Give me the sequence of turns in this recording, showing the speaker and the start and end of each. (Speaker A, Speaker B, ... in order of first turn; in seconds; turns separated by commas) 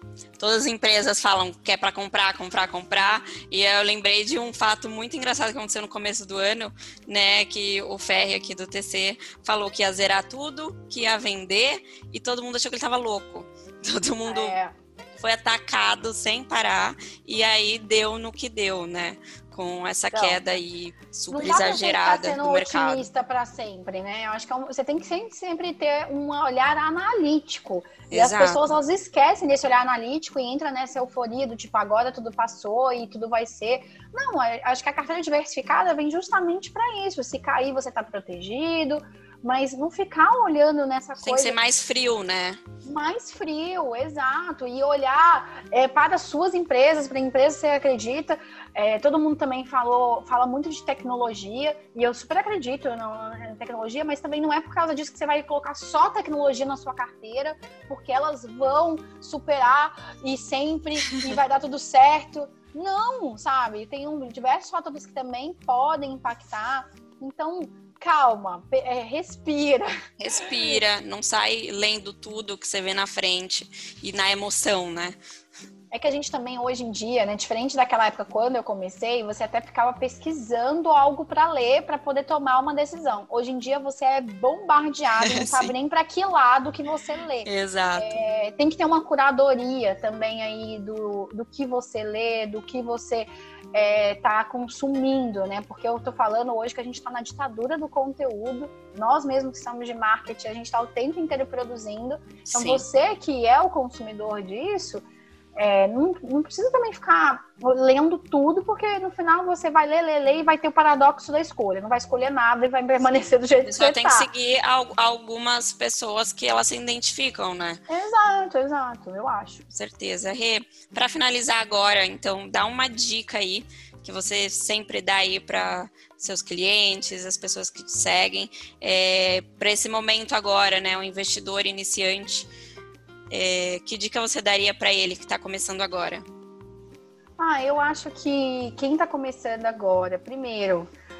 Speaker A: 0.4-14.5, Speaker B: 14.2-14.7, Speaker A: 15.2-23.1, Speaker B: 20.1-20.4, Speaker B: 21.3-41.6, Speaker A: 28.1-28.8, Speaker A: 41.2-42.6, Speaker B: 42.8-70.8, Speaker A: 70.2-75.2, Speaker B: 75.9-105.0, Speaker A: 85.2-85.7, Speaker A: 87.4-88.2, Speaker A: 102.5-102.8, Speaker B: 105.6-114.3, Speaker A: 113.6-117.8, Speaker B: 117.9-119.6, Speaker A: 119.7-132.5, Speaker A: 133.3-136.2, Speaker B: 137.4-140.9